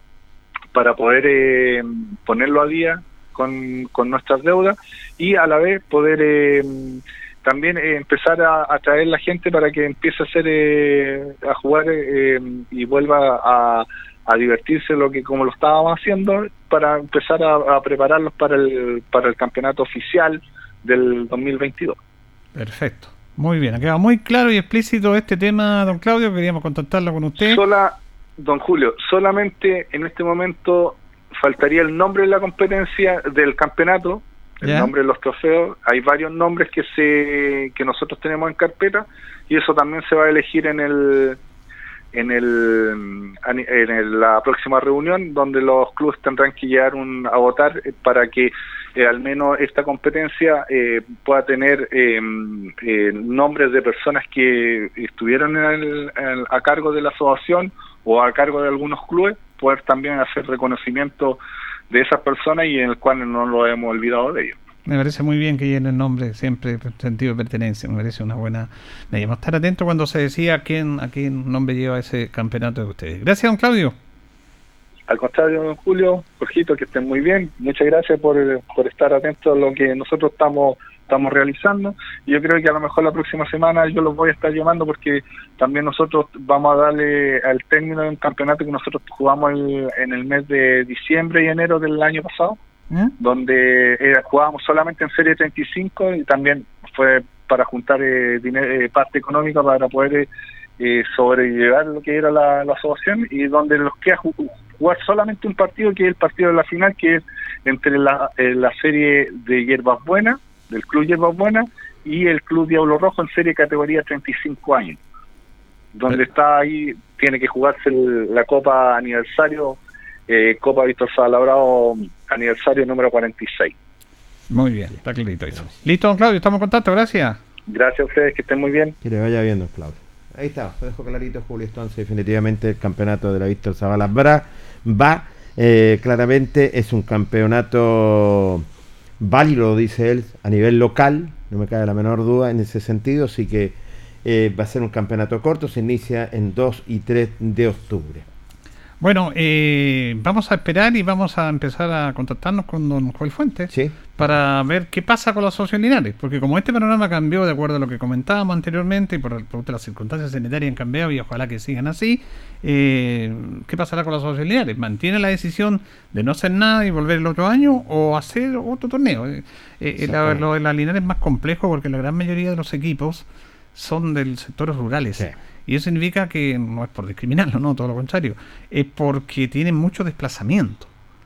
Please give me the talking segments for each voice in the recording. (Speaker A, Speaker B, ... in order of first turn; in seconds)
Speaker A: 0.7-22.0, 27.4-41.4, 42.1-61.4, 61.9-64.6, 75.1-92.6, 93.2-115.0, 115.9-123.7, 127.7-128.9
Speaker B: 22.5-27.6, 34.6-34.9, 64.8-74.0, 92.9-93.1, 124.5-127.4, 149.0-180.9
Speaker C: 129.0-138.7, 139.2-148.2, 153.7-154.3, 170.0-170.4